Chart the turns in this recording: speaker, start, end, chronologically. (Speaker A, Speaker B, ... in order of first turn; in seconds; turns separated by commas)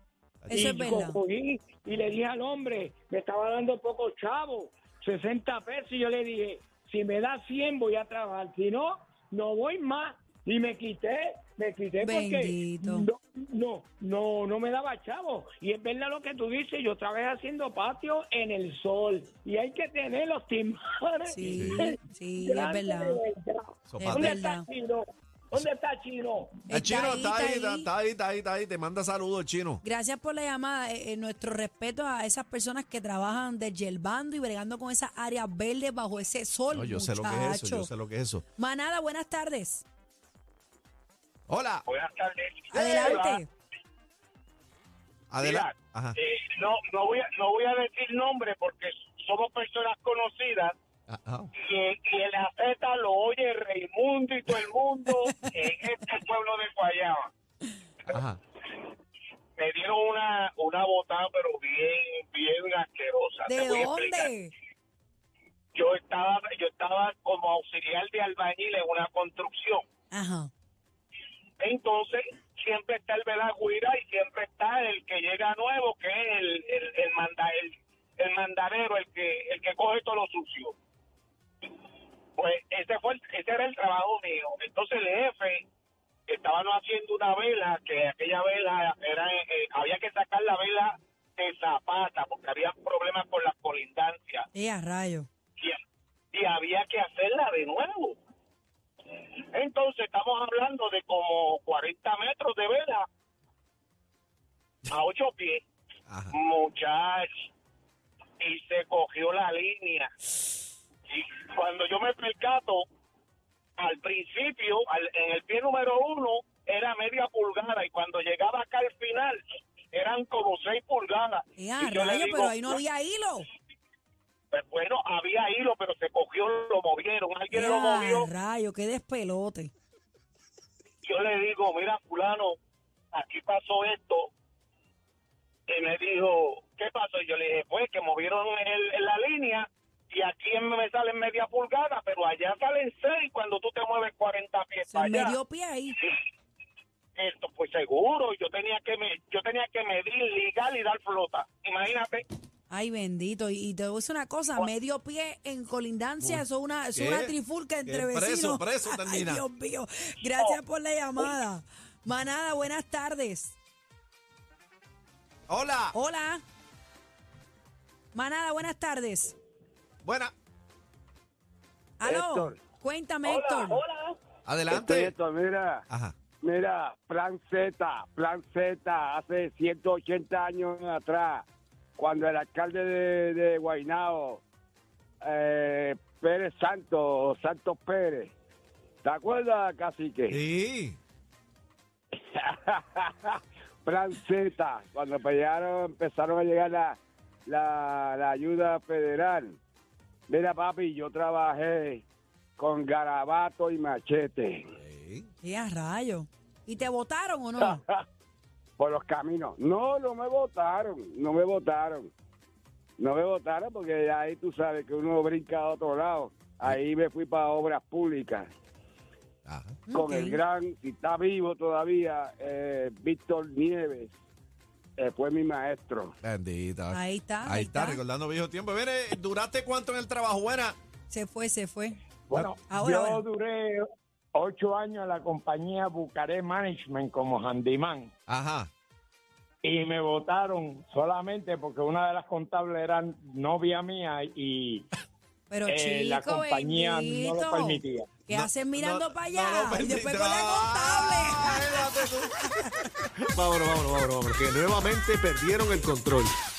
Speaker A: 0.4-0.8, Speaker B: 0.5-1.2, Speaker C: 0.5-26.7, Speaker B: 12.0-13.1, Speaker B: 21.3-23.2, Speaker A: 21.6-21.9, Speaker A: 23.9-24.4, Speaker B: 24.0-24.6, Speaker B: 26.7-27.9, Speaker A: 26.7-29.8, Speaker B: 29.8-37.9, Speaker A: 36.7-38.4, Speaker B: 38.5-39.8, Speaker A: 41.5-41.8, Speaker D: 41.9-43.4, Speaker B: 42.7-43.5, Speaker A: 45.3-46.2, Speaker D: 45.4-50.7, Speaker A: 51.1-51.5, Speaker D: 51.5-57.3, Speaker A: 58.1-58.4, Speaker D: 59.6-64.3, Speaker B: 63.5-64.5, Speaker D: 65.7-69.8, Speaker B: 70.1-70.5, Speaker D: 71.6-80.7, Speaker D: 82.4-85.6, Speaker D: 86.3-94.4, Speaker B: 94.5-95.3, Speaker D: 96.3-98.2, Speaker D: 99.5-103.0, Speaker D: 104.9-105.6, Speaker A: 106.1-106.3, Speaker D: 106.3-107.3, Speaker D: 108.4-110.1, Speaker D: 111.1-112.8, Speaker D: 113.8-119.4, Speaker D: 119.9-122.8, Speaker B: 121.6-123.5, Speaker D: 124.5-128.3, Speaker B: 127.5-129.7, Speaker D: 131.0-132.6, Speaker D: 133.1-134.3, Speaker D: 135.7-145.4, Speaker B: 144.9-146.0, Speaker D: 147.2-152.2, Speaker B: 152.7-163.6, Speaker A: 156.9-159.4, Speaker A: 165.5-165.9, Speaker B: 165.9-166.4, Speaker B: 168.1-169.3, Speaker A: 170.0-170.3, Speaker B: 172.0-173.8, Speaker E: 172.1-172.6, Speaker D: 173.6-174.0, Speaker A: 174.4-175.1, Speaker E: 174.7-175.8, Speaker E: 176.4-181.4, Speaker E: 182.0-184.4, Speaker E: 185.2-188.3, Speaker E: 189.0-190.4, Speaker A: 190.3-191.0, Speaker E: 192.3-199.6, Speaker E: 200.3-202.0, Speaker E: 202.6-204.6, Speaker A: 204.8-205.3, Speaker B: 205.4-207.8, Speaker E: 207.6-207.9, Speaker E: 208.8-212.1, Speaker E: 213.0-218.5, Speaker A: 219.4-219.8, Speaker B: 219.9-220.4, Speaker E: 219.9-224.1, Speaker E: 225.0-226.1, Speaker A: 226.2-230.8, Speaker B: 226.9-228.0, Speaker B: 231.1-232.0, Speaker F: 232.3-233.8, Speaker B: 232.6-233.2, Speaker F: 234.3-238.1, Speaker A: 238.3-238.7, Speaker F: 239.6-244.8, Speaker B: 245.5-252.7, Speaker F: 245.7-248.1, Speaker A: 248.3-252.3, Speaker A: 253.2-255.3, Speaker G: 254.0-256.3